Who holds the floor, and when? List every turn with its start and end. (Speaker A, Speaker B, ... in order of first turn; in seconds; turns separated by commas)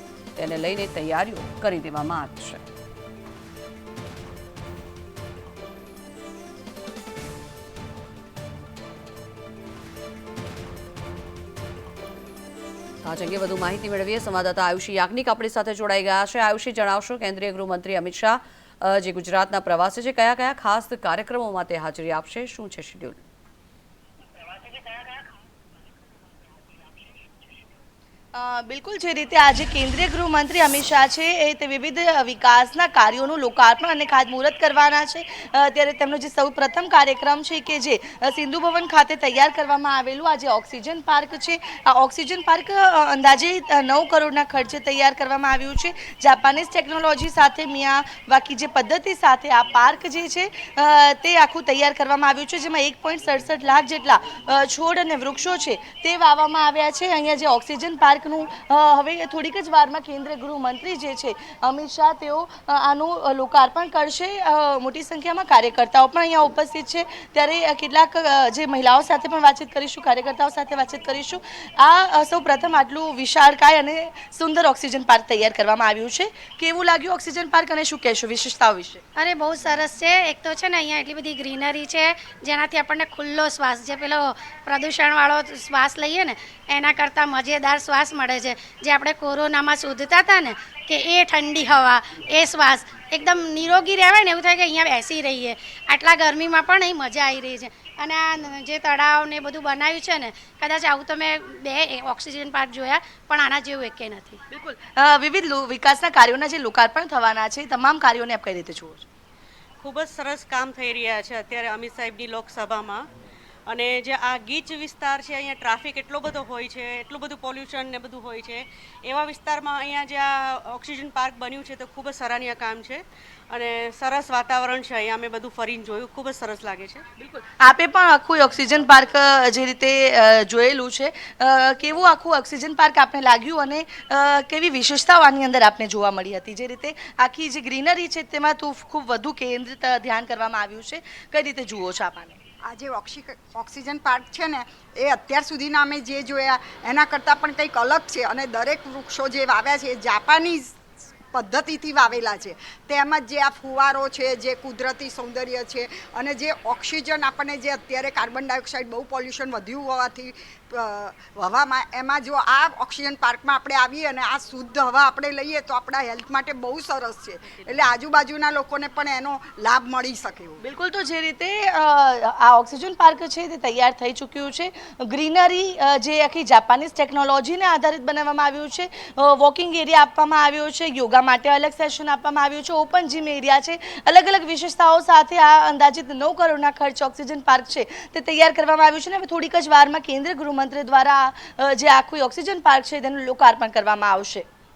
Speaker A: 0.4-2.6, Speaker A: 13.0-23.2, Speaker B: 28.3-79.0, Speaker C: 79.2-104.4, Speaker B: 104.5-109.1, Speaker D: 109.8-113.1, Speaker D: 113.7-127.1, Speaker B: 127.2-142.4, Speaker E: 142.7-150.8, Speaker E: 151.3-170.6, Speaker B: 170.6-194.5